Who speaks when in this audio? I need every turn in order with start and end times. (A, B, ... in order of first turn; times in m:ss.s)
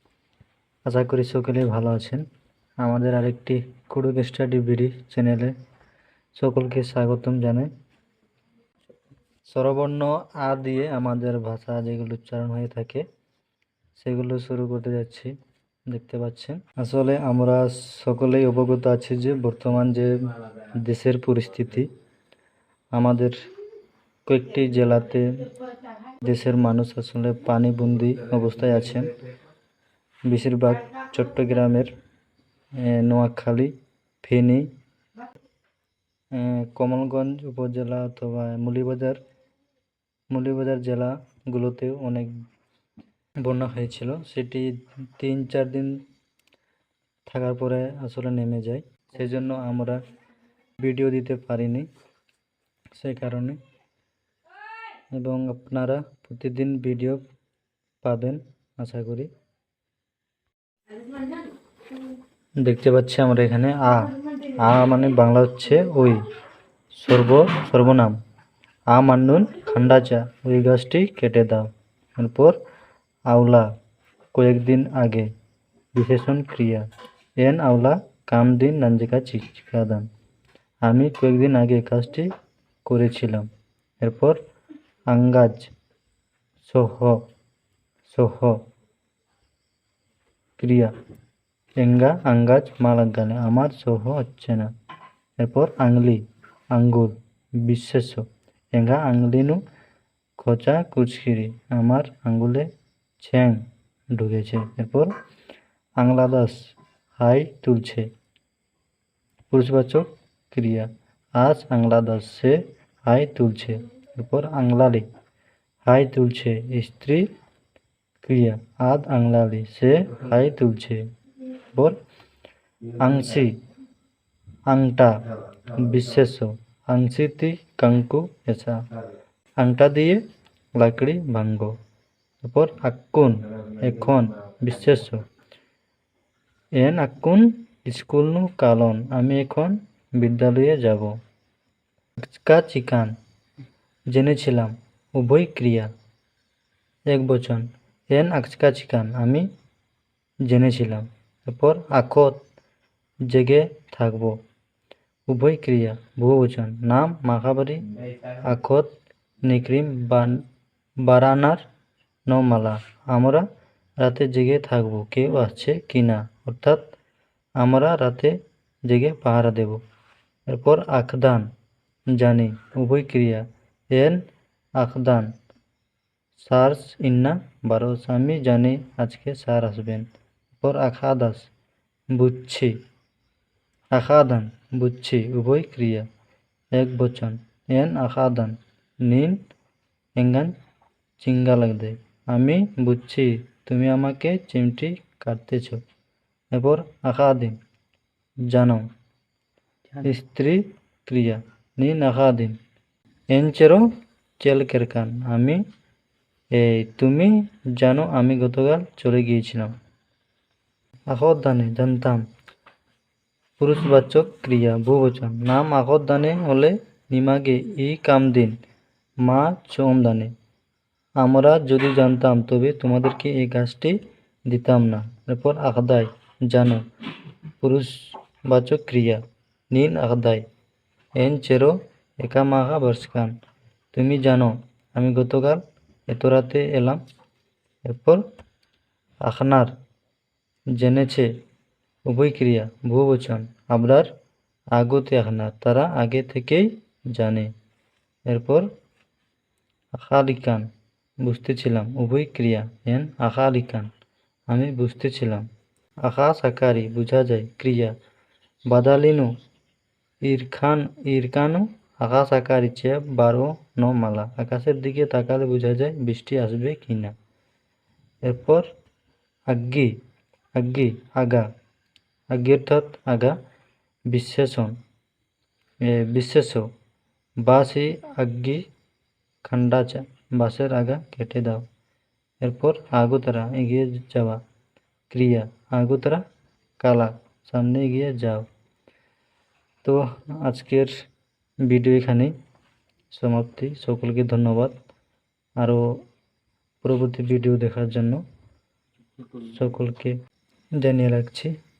0:00.8-0:02.2 A
0:02.8-0:05.5 A
0:06.4-0:07.7 A
0:09.5-0:13.0 A
0:14.0-0:15.3 A
0:15.9-0:20.1 A
0:20.8-0:21.9 A
0:22.9-0:23.3 A
0:24.2-0:25.4 A
0:26.2-0:29.1 A
0:30.3-0:31.9 A
0:32.8-0:34.7 A
0:36.3-0:39.2 A
0:40.3-0:42.3 A
0:43.4-0:46.0 A
0:47.3-0:50.0 A
0:50.8-0:51.9 A
0:53.0-0:53.6 A
0:55.1-0:57.2 A
0:58.0-0:59.3 A
1:02.6-1:06.2 A
1:07.0-1:08.2 A
1:08.9-1:12.6 A
1:13.3-1:13.7 A
1:14.3-1:15.3 A
1:16.0-1:16.8 A
1:17.4-1:20.1 A
1:20.8-1:22.3 A
1:22.8-1:23.5 A
1:24.0-1:24.4 A
1:25.1-1:25.7 A
1:26.6-1:27.2 A
1:28.1-1:28.6 A
1:30.6-1:30.9 A
1:31.8-1:34.7 A
1:35.4-1:36.2 A
1:36.7-1:39.6 A
1:40.4-1:42.7 A
1:43.2-1:45.1 A
1:46.0-1:46.6 A
1:47.2-1:48.1 A
1:49.5-1:55.0 A
1:55.8-1:57.2 A
1:58.2-2:01.0 A
2:01.7-2:01.9 A
2:03.0-2:03.5 A
2:04.7-2:05.1 A
2:05.7-2:08.8 A
2:09.6-2:10.2 A
2:10.8-2:11.7 A
2:12.4-2:15.2 A
2:16.8-2:21.1 A
2:22.2-2:23.1 A
2:24.1-2:25.9 A
2:27.1-2:29.5 A
2:30.5-2:32.4 A
2:33.3-2:34.4 A
2:35.3-2:38.9 A
2:39.4-2:40.4 A
2:41.0-2:41.6 A
2:42.3-2:43.4 A
2:44.0-2:46.8 A
2:47.6-2:48.4 A
2:48.9-2:49.8 A
2:50.5-2:51.5 A
2:52.1-2:54.2 A
2:54.8-2:55.3 A
2:56.4-3:01.5 A
3:02.1-3:02.7 A
3:03.9-3:06.0 A
3:06.7-3:09.4 A
3:10.2-3:10.5 A
3:11.2-3:15.8 A
3:16.5-3:17.6 A
3:18.5-3:18.9 A
3:20.0-3:22.6 A
3:23.3-3:23.8 A
3:24.4-3:25.6 A
3:26.5-3:29.7 A
3:31.1-3:32.2 A
3:33.6-3:38.5 A
3:39.2-3:40.3 A
3:41.2-3:44.0 A
3:44.5-3:46.8 A
3:47.6-3:47.9 A
3:48.5-3:49.2 A
3:49.7-3:50.4 A
3:51.2-3:53.3 A
3:53.9-3:57.0 A
3:57.9-3:58.2 A
3:59.2-3:59.7 A
4:00.8-4:01.3 A
4:02.1-4:04.1 A
4:04.8-4:07.5 A
4:08.3-4:08.7 A
4:10.0-4:10.7 A
4:11.2-4:13.9 A
4:14.5-4:15.4 A
4:16.0-4:17.9 A
4:18.7-4:19.3 A
4:20.2-4:27.1 A
4:28.2-4:28.6 A
4:29.5-4:29.9 A
4:30.6-4:31.5 A
4:32.3-4:33.3 A
4:34.1-4:34.8 A
4:35.8-4:36.7 A
4:37.4-4:38.6 A
4:39.4-4:41.6 A
4:42.4-4:44.4 A
4:45.1-4:46.2 A
4:46.8-4:48.4 A
4:49.8-4:50.9 A
4:51.7-4:52.3 A
4:53.1-4:54.7 A
4:56.8-4:58.2 A
4:59.3-5:00.1 A
5:00.8-5:01.5 A